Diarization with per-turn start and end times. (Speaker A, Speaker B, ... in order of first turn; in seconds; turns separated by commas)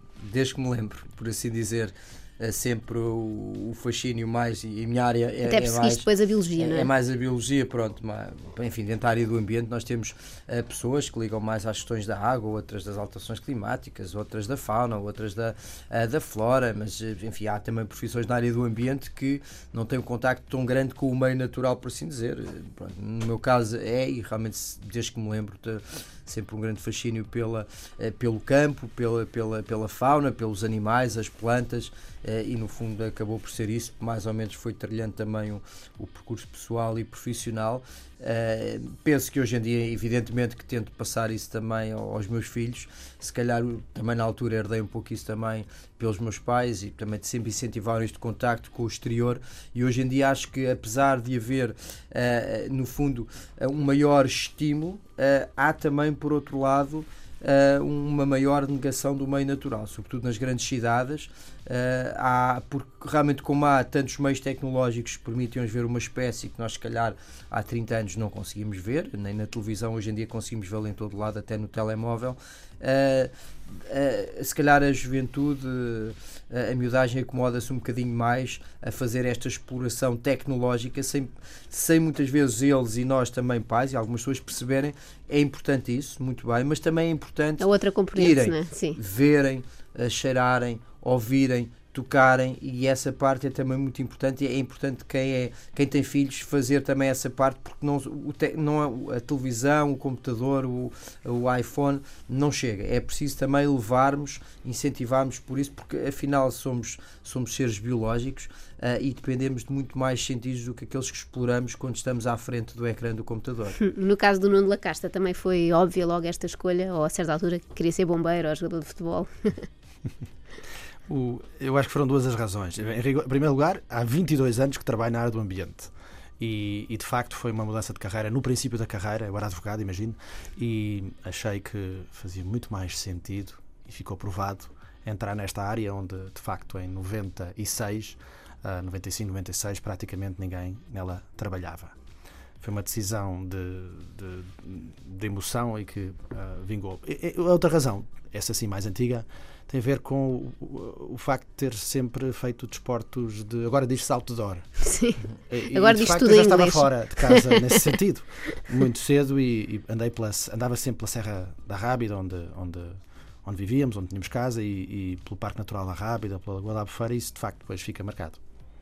Speaker A: 0.2-6.1, Speaker B: 5.4-6.9, Speaker A: 6.6-113.8, Speaker B: 87.6-89.0, Speaker B: 113.8-119.7, Speaker C: 121.1-141.9, Speaker C: 142.6-154.7, Speaker B: 154.8-157.9, Speaker C: 155.5-168.4